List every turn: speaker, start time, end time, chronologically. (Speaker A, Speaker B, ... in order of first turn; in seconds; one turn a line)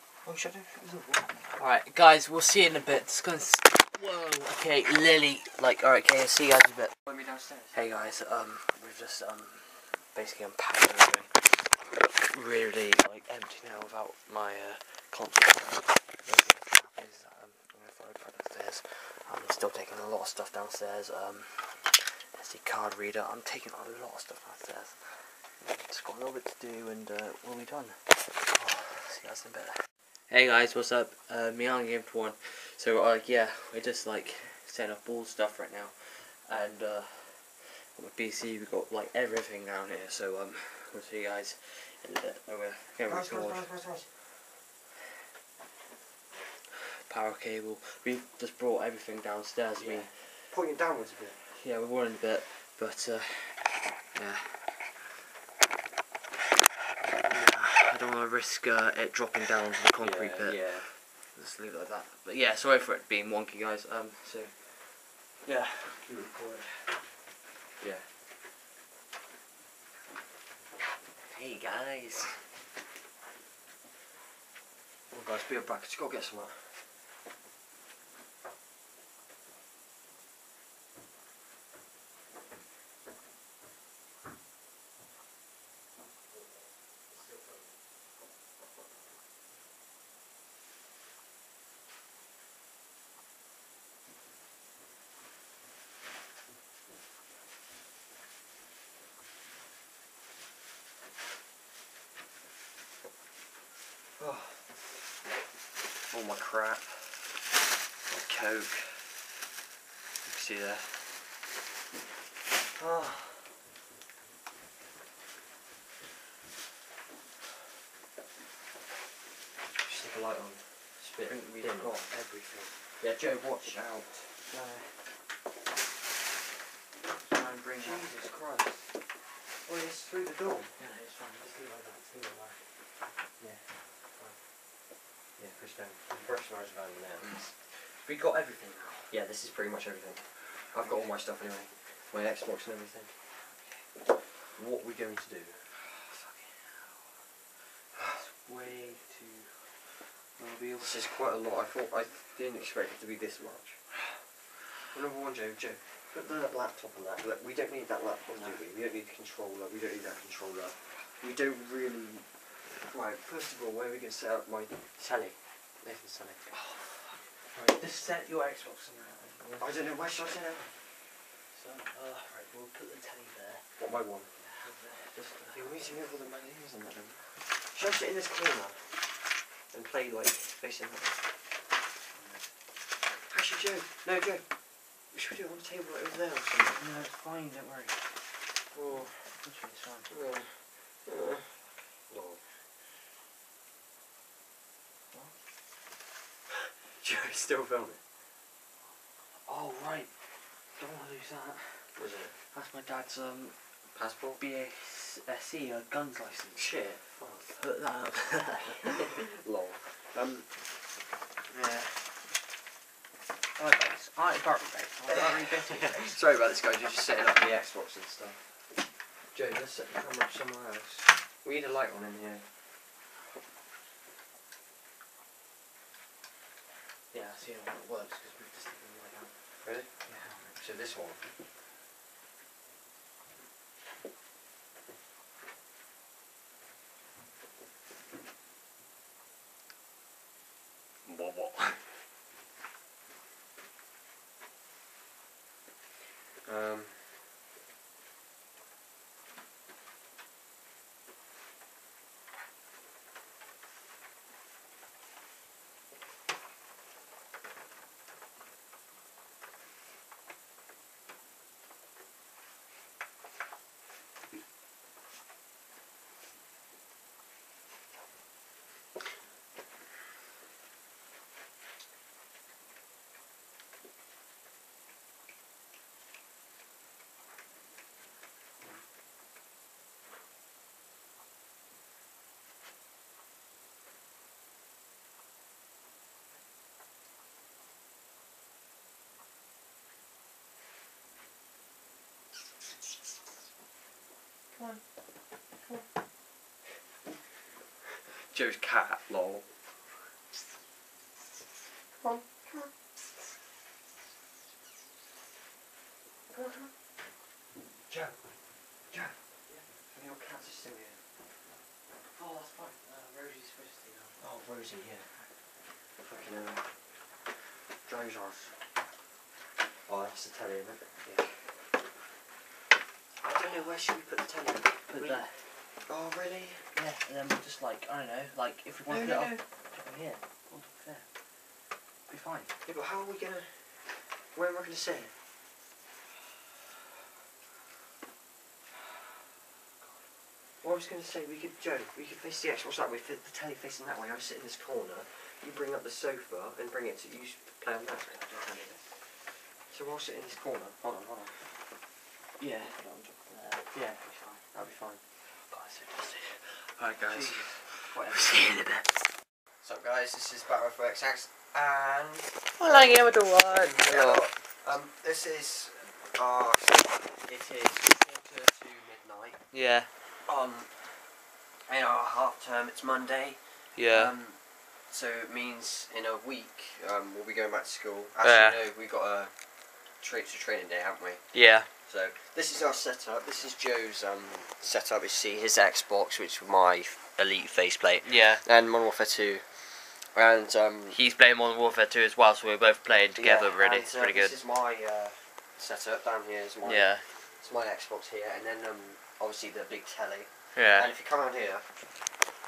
Speaker A: 0.2-1.4
Speaker B: 1.5-6.9
Speaker A: 7.1-7.8
Speaker B: 7.7-29.8
Speaker B: 30.3-43.7
Speaker A: 43.1-44.1
Speaker B: 47.1-50.1
Speaker A: 49.8-51.4
Speaker B: 51.5-54.9
Speaker B: 57.3-66.9
Speaker A: 60.0-60.9
Speaker A: 66.1-66.3
Speaker A: 67.8-68.1
Speaker B: 71.3-72.4
Speaker A: 75.1-76.8
Speaker A: 104.2-104.6
Speaker A: 106.1-107.3
Speaker A: 108.1-109.1
Speaker A: 110.2-111.0
Speaker A: 112.8-113.5
Speaker A: 119.8-122.1
Speaker B: 121.2-122.8
Speaker A: 123.0-124.3
Speaker B: 124.5-124.9
Speaker B: 127.3-128.1
Speaker A: 127.8-128.9
Speaker A: 129.7-130.7
Speaker B: 130.8-132.6
Speaker A: 135.4-137.5
Speaker B: 137.2-139.1
Speaker A: 139.1-143.1
Speaker B: 140.8-141.1
Speaker A: 144.6-145.6
Speaker B: 145.8-147.0
Speaker A: 148.0-148.2
Speaker B: 148.1-149.7
Speaker B: 150.4-151.4
Speaker A: 150.8-153.8
Speaker A: 154.9-166.5
Speaker B: 166.5-169.7
Speaker A: 169.6-170.7
Speaker B: 171.5-173.6
Speaker A: 173.8-174.3
Speaker B: 174.4-175.7
Speaker A: 175.5-178.9
Speaker A: 179.7-181.2
Speaker B: 182.1-182.4
Speaker A: 183.3-184.5
Speaker A: 185.1-186.8
Speaker B: 186.8-188.1
Speaker A: 188.7-189.1
Speaker B: 188.9-190.1
Speaker A: 190.1-191.5
Speaker A: 192.1-192.4
Speaker A: 196.5-198.0
Speaker B: 199.5-200.1
Speaker B: 200.8-201.9
Speaker A: 201.9-202.3
Speaker B: 202.5-203.6
Speaker A: 203.9-204.4
Speaker B: 204.4-209.3
Speaker A: 206.6-207.1
Speaker A: 208.8-210.5
Speaker B: 211.5-212.0
Speaker B: 213.6-216.2
Speaker A: 215.1-218.5
Speaker A: 219.3-222.4
Speaker B: 227.1-229.3
Speaker A: 229.6-229.9
Speaker B: 230.1-230.5
Speaker A: 230.5-231.2
Speaker A: 241.1-241.9
Speaker A: 246.5-247.1
Speaker A: 294.6-294.8
Speaker A: 298.3-299.5
Speaker A: 302.0-302.7
Speaker A: 306.3-306.7
Speaker A: 307.9-308.2
Speaker A: 309.9-311.0
Speaker B: 312.1-314.2
Speaker A: 314.2-315.1
Speaker A: 316.0-316.7
Speaker A: 317.9-318.6
Speaker A: 319.9-320.9
Speaker A: 323.2-325.2
Speaker B: 324.9-325.3
Speaker A: 325.9-326.7
Speaker B: 326.8-331.1
Speaker A: 328.9-329.4
Speaker B: 332.1-332.5
Speaker A: 332.6-333.7
Speaker A: 334.3-335.1
Speaker A: 340.6-348.8
Speaker B: 348.3-348.7
Speaker A: 349.7-351.4
Speaker B: 352.4-354.4
Speaker A: 354.5-355.0
Speaker B: 355.4-359.0
Speaker A: 357.1-358.5
Speaker A: 359.6-369.4
Speaker B: 362.6-364.2
Speaker B: 369.5-369.9
Speaker A: 370.3-370.9
Speaker A: 371.7-379.4
Speaker B: 373.8-374.1
Speaker B: 378.2-378.6
Speaker A: 379.9-391.0
Speaker B: 381.3-381.7
Speaker B: 388.1-388.4
Speaker B: 390.9-394.4
Speaker A: 393.2-401.7
Speaker B: 396.6-397.0
Speaker B: 400.6-400.9